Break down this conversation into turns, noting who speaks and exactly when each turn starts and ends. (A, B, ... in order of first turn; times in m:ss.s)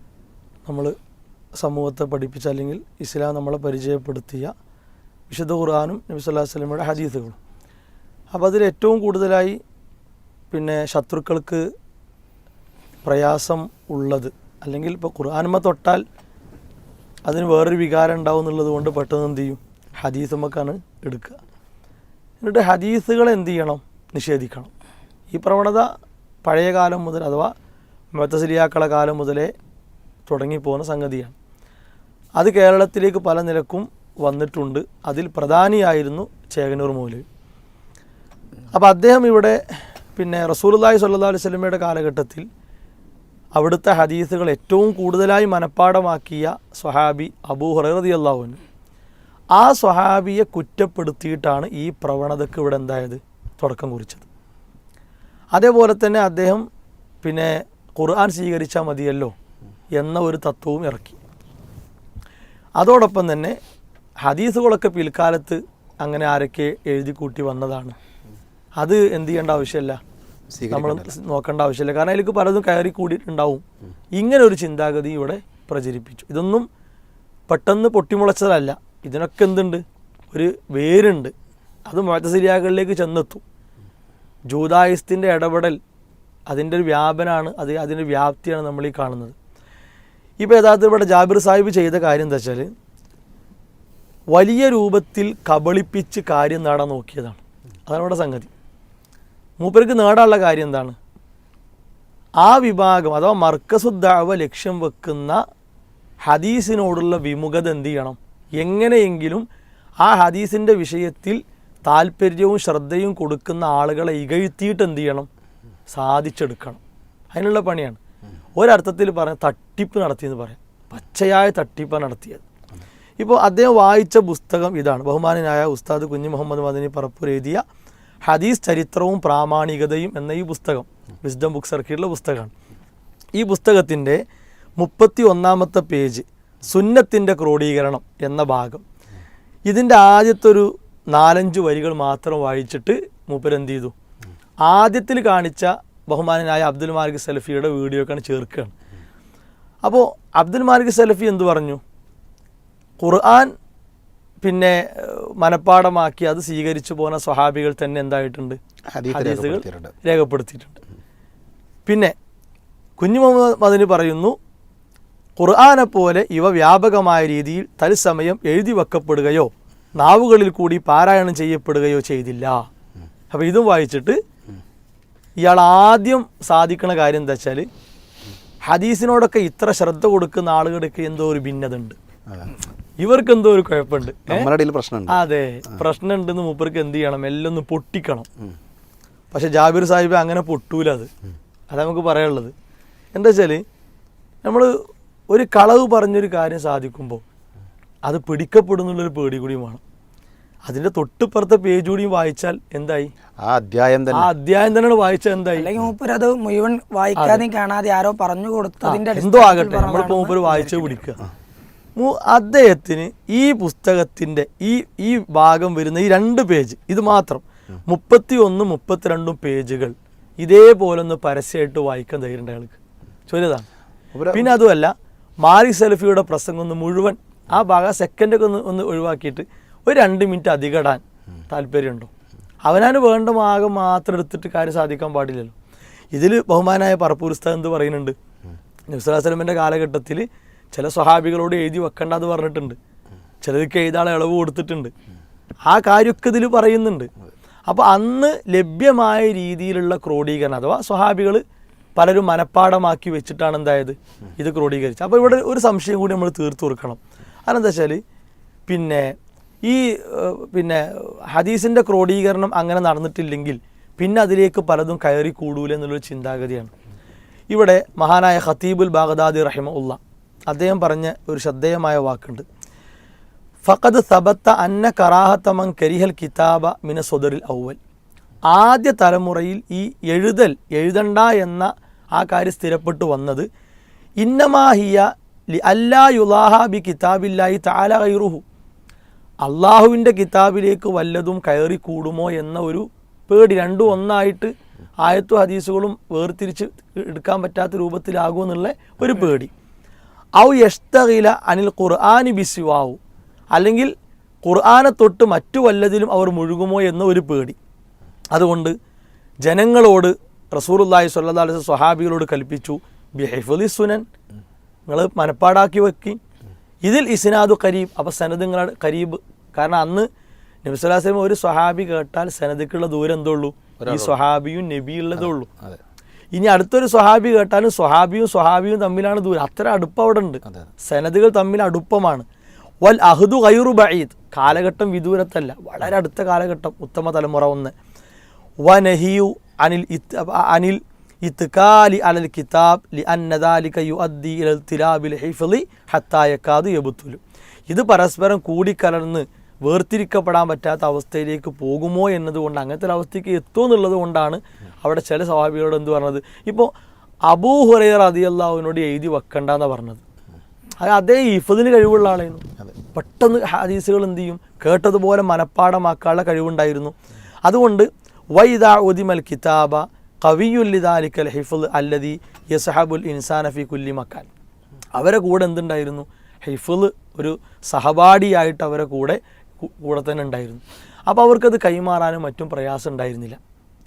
0:00.6-0:01.0 A
0:01.6-0:04.5 A
0:05.3-0:07.4 A
0:08.3-0:09.6 A
0:10.5-0:11.6 A
0:13.0-0:16.0 A
0:17.2-0:21.4 A
0:22.4-0:24.7 A
0:25.3-0:25.9 A
0:26.4-0:27.5 A
0:28.1-0:29.5 A
0:30.3-0:31.3 A
0:32.4-0:37.2 A
0:38.7-0:39.6 A
0:40.2-0:42.4 A
0:43.5-0:48.6 A
0:49.5-0:54.2 A
0:55.5-0:56.6 A
0:57.2-0:59.3 A
0:59.9-1:01.2 A
1:02.8-1:03.6 A
1:04.2-1:08.0 A
1:08.8-1:10.0 A
1:10.5-1:11.1 B
1:10.7-1:13.6 A
1:14.2-1:16.7 A
1:17.5-1:21.3 A
1:21.9-1:23.4 A
1:24.5-1:25.8 A
1:26.5-1:29.4 A
1:30.4-1:32.7 A
1:34.3-1:38.5 A
1:39.6-1:41.0 A
1:42.4-1:45.4 A
1:46.2-1:49.4 A
1:50.0-1:55.3 A
1:55.9-1:56.8 A
1:57.3-1:58.0 A
1:58.6-2:02.4 A
2:03.2-2:07.6 A
2:08.2-2:12.5 A
2:13.4-2:14.2 A
2:14.8-2:18.8 A
2:19.6-2:23.9 A
2:24.6-2:28.7 A
2:29.8-2:31.8 A
2:33.0-2:33.5 A
2:34.4-2:40.8 A
2:38.9-2:39.9 B
2:41.8-2:42.1 A
2:43.0-2:44.4 A
2:45.4-2:52.6 A
2:53.3-2:54.2 A
2:55.4-2:57.7 A
2:58.7-3:02.0 A
3:03.0-3:04.5 A
3:04.3-3:05.2 B
3:05.1-3:08.3 A
3:09.3-3:11.1 A
3:11.7-3:12.5 A
3:13.1-3:13.6 A
3:14.4-3:17.2 A
3:18.0-3:19.8 A
3:20.6-3:23.1 A
3:23.4-3:24.3 B
3:24.1-3:25.7 A
3:25.6-3:31.0 C
3:27.2-3:27.4 A
3:28.8-3:31.2 A
3:32.0-3:42.8 A
3:43.3-3:43.6 A
3:44.1-3:44.6 B
3:44.3-3:52.1 A
3:52.6-3:55.5 A
3:56.1-3:58.1 A
3:58.9-4:02.8 A
4:03.4-4:04.9 A
4:05.7-4:07.1 A
4:07.7-4:11.4 A
4:12.0-4:18.0 A
4:18.7-4:26.7 A
4:27.5-4:32.4 A
4:33.6-4:37.8 A
4:38.5-4:43.5 A
4:44.2-4:48.4 A
4:49.4-4:54.5 A
4:55.0-4:59.5 A
5:00.4-5:03.0 A
5:03.5-5:03.9 A
5:04.4-5:07.6 A
5:08.3-5:08.7 A
5:09.4-5:14.0 A
5:14.9-5:16.2 A
5:16.8-5:20.1 A
5:20.6-5:25.5 A
5:23.8-5:24.2 B
5:25.2-5:25.8 B
5:26.3-5:32.2 A
5:32.8-5:37.7 A
5:38.6-5:56.7 A
5:57.3-6:00.0 A
6:00.8-6:06.9 A
6:07.4-6:14.3 A
6:15.0-6:23.4 A